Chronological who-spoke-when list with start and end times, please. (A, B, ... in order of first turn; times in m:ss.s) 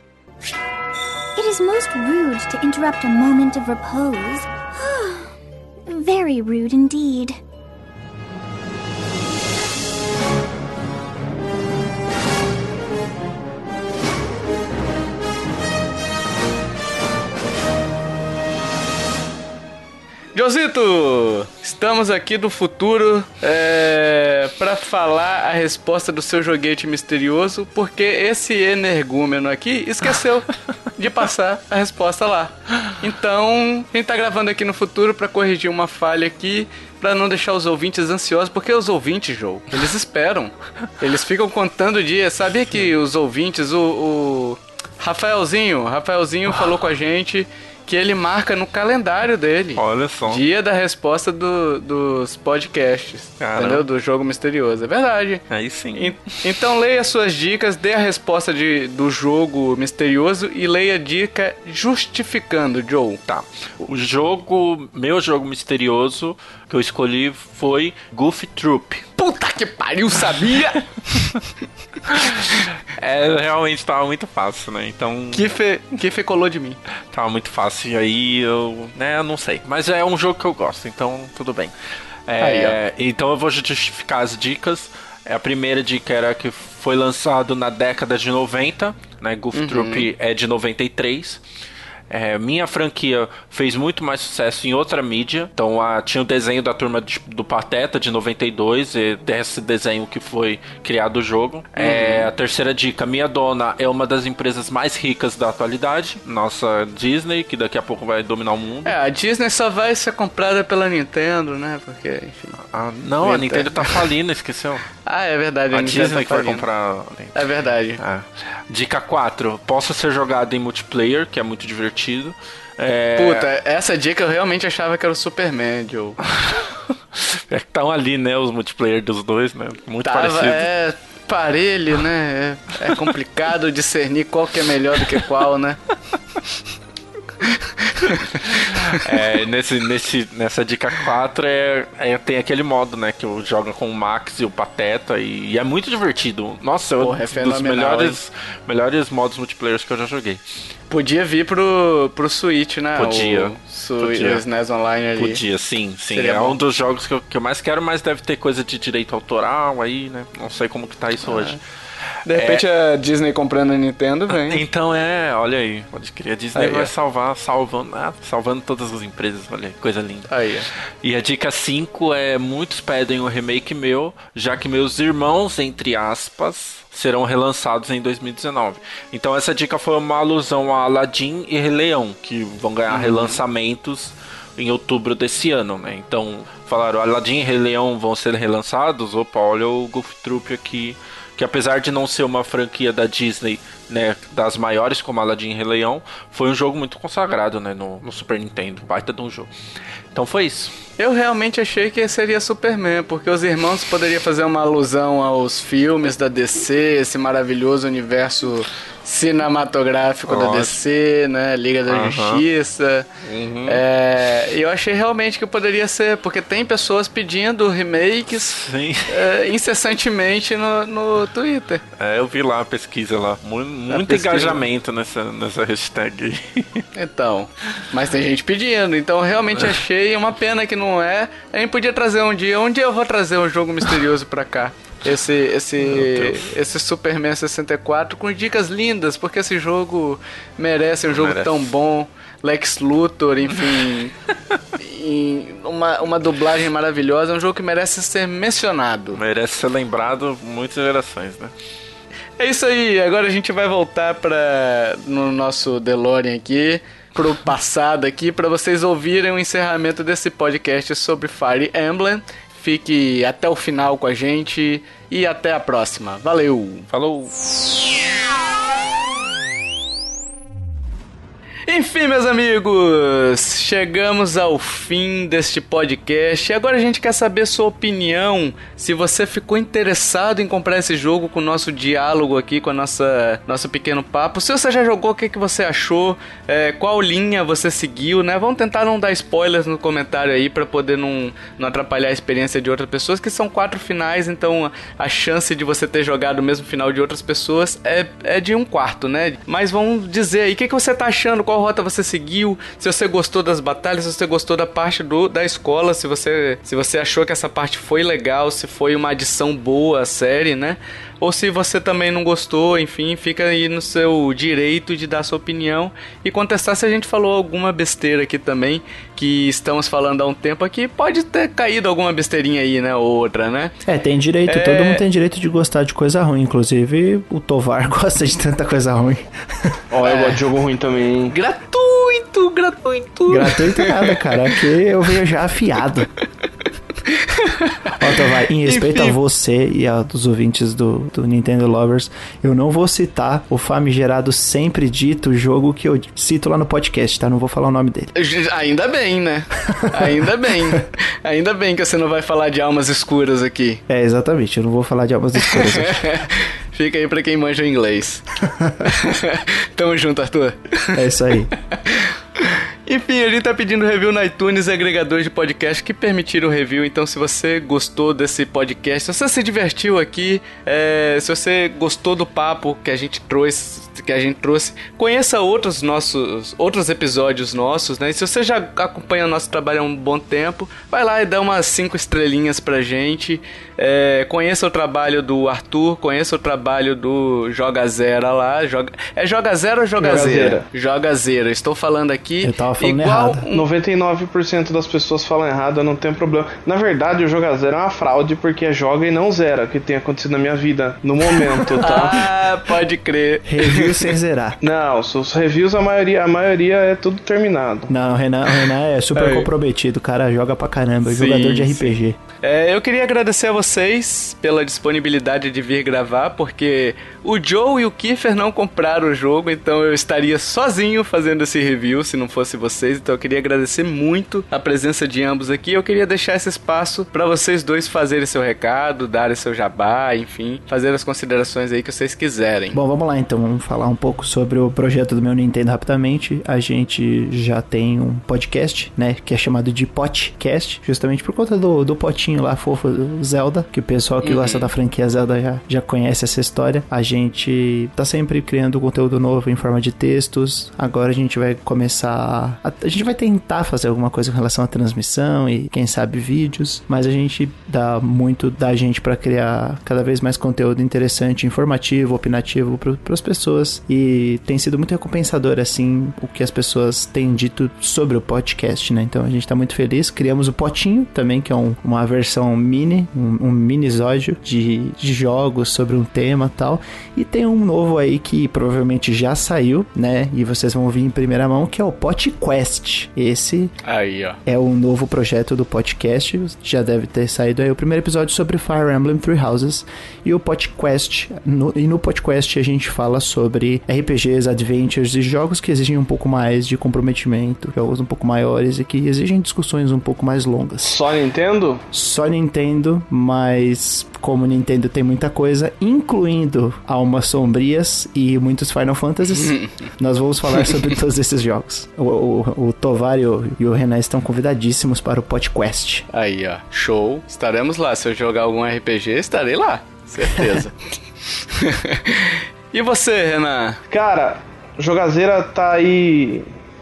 0:01.4-0:05.3 A
0:05.9-0:07.4 A
0:20.4-1:03.2 B
0:49.8-0:50.4 C
0:53.4-0:53.8 C
0:55.5-0:56.6 C
1:03.3-1:09.1 C
1:09.2-1:10.8 B
1:12.1-1:15.4 C
1:15.3-1:16.8 B
1:17.1-1:21.7 C
1:22.3-1:31.4 C
1:22.4-1:22.8 B
1:29.5-1:30.1 B
1:32.1-1:49.0 C
1:41.8-1:42.3 B
1:48.8-1:52.6 B
1:52.7-1:54.8 C
1:53.2-1:54.1 B
1:55.0-1:56.7 B
1:55.7-2:03.5 C
1:57.3-1:58.0 B
2:03.2-2:06.2 B
2:06.4-2:10.7 C
2:10.0-2:15.8 B
2:17.4-2:19.4 B
2:18.4-2:30.4 C
2:27.0-2:28.2 B
2:30.9-2:35.4 B
2:33.0-2:34.4 C
2:35.2-2:41.6 C
2:36.1-2:36.6 B
2:41.2-2:41.6 B
2:42.3-2:44.6 B
2:42.3-2:42.6 C
2:44.3-2:50.3 C
2:46.6-2:46.9 B
2:50.3-2:50.7 B
2:51.0-3:19.5 C
3:02.9-3:03.4 B
3:20.1-3:20.7 C
3:21.0-3:33.1 B
3:30.3-3:30.8 C
3:31.9-3:32.4 C
3:33.2-3:34.5 C
3:33.7-3:41.8 B
3:38.4-3:39.2 C
3:42.0-3:46.8 C
3:43.9-3:44.7 B
3:47.0-4:04.1 B
3:55.8-3:56.5 C
4:01.1-4:01.7 C
4:03.5-4:03.9 C
4:04.8-4:09.2 B
4:09.1-4:11.5 C
4:12.4-4:26.9 B
4:26.9-4:27.3 C
4:31.7-5:23.7 B
5:23.8-5:29.8 D
5:24.5-5:25.0 B
5:29.9-5:31.4 E
5:30.0-5:30.4 B
5:31.3-5:34.6 B
5:33.3-5:36.1 D
5:37.1-5:39.2 B
5:38.0-5:48.1 D
5:48.1-5:53.8 B
5:53.9-5:56.1 D
5:55.4-5:58.2 B
5:58.5-5:58.9 D
5:58.8-6:01.0 B
6:00.9-6:01.5 D
6:01.7-6:33.7 B
6:30.0-6:30.6 E
6:32.4-6:33.4 D
6:33.5-6:42.3 E
6:41.7-6:44.1 B
6:43.4-6:44.6 D
6:44.6-6:47.9 E
6:47.9-6:52.2 D
6:49.2-6:49.5 B
6:51.0-7:12.8 B
7:12.7-8:03.7 D
7:24.2-7:24.7 B
8:03.8-8:04.4 B
8:04.4-8:21.0 D
8:20.8-8:21.8 E
8:21.9-8:36.1 D
8:29.4-8:29.9 B
8:36.1-8:43.8 B
8:40.2-8:40.5 D
8:43.9-8:46.5 E